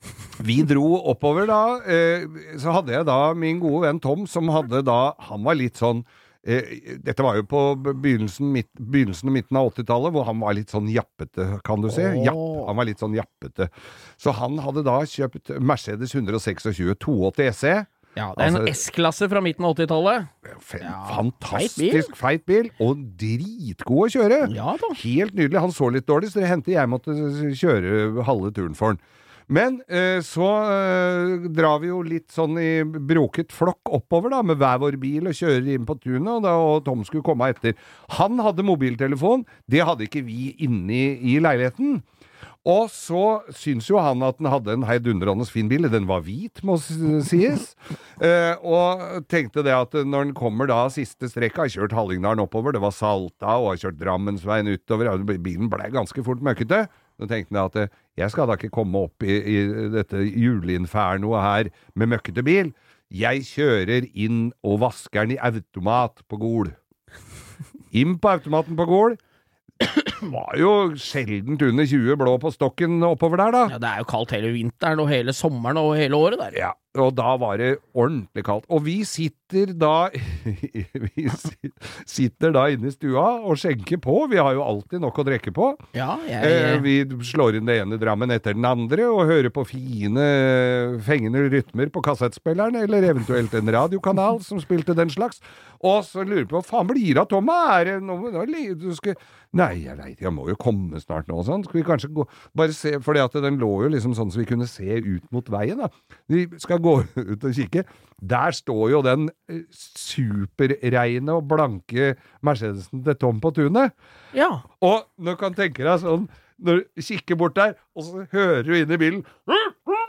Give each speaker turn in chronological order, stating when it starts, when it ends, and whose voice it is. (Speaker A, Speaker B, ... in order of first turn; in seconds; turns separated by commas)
Speaker A: 0.4-18.8, Speaker B: 11.9-12.7, Speaker B: 18.2-20.3, Speaker A: 20.4-42.0, Speaker B: 20.8-22.1, Speaker B: 24.4-25.0, Speaker A: 42.6-66.7, Speaker A: 67.9-69.2, Speaker A: 70.0-73.7, Speaker B: 73.7-76.6, Speaker A: 76.5-85.8, Speaker B: 86.0-86.9, Speaker A: 86.4-113.9, Speaker B: 114.3-114.6, Speaker A: 114.8-119.8